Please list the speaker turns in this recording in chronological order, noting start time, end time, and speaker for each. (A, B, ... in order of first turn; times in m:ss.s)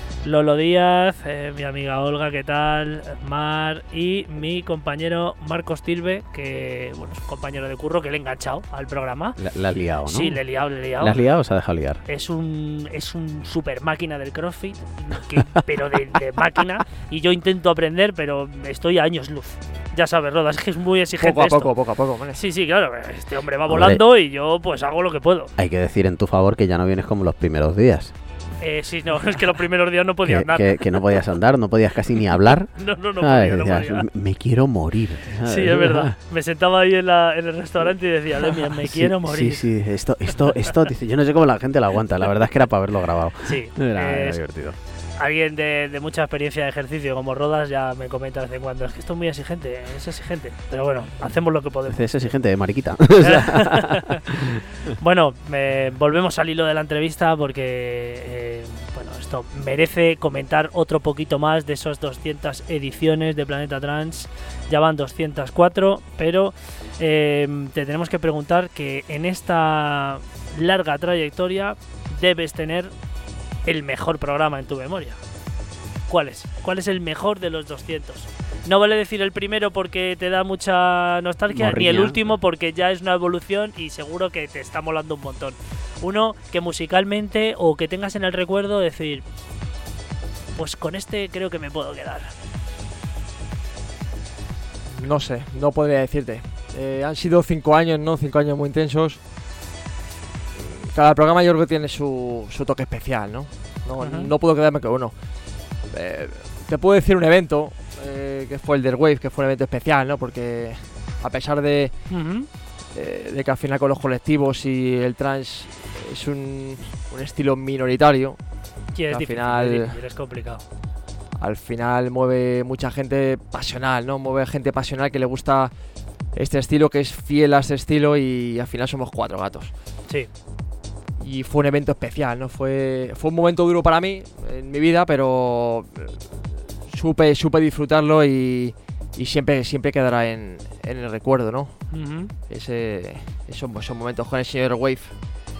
0:00.2-0:09.4 A
0:09.4-0:10.4 B
0:10.0-0:11.2 A
0:11.0-0:12.0 B
0:12.0-0:21.7 A
0:21.2-0:22.4 C
0:22.4-0:25.5 A
0:23.7-0:24.0 B
0:25.6-0:28.1 B
0:28.6-0:30.8 A
0:30.2-0:36.1 B
0:32.8-0:34.0 A
0:35.4-0:39.6 A
0:38.8-0:44.8 B
0:43.4-0:44.4 A
0:45.2-0:52.3 A
0:51.9-0:54.6 B
0:53.2-0:54.2 A
0:54.9-1:12.9 A
1:13.6-1:15.2 A
1:16.1-1:29.2 A
1:21.5-1:22.3 B
1:30.6-1:32.3 A
1:35.0-1:39.2 C
1:40.6-1:45.1 C
1:44.0-1:44.3 A
1:45.8-1:52.1 C
1:52.1-1:52.5 A
1:52.9-1:58.4 C
1:58.9-2:00.6 A
1:59.1-2:00.0 C
2:01.4-2:05.7 C
2:06.3-2:09.7 C
2:11.2-2:21.9 C
2:21.9-2:22.3 A
2:22.5-2:25.1 C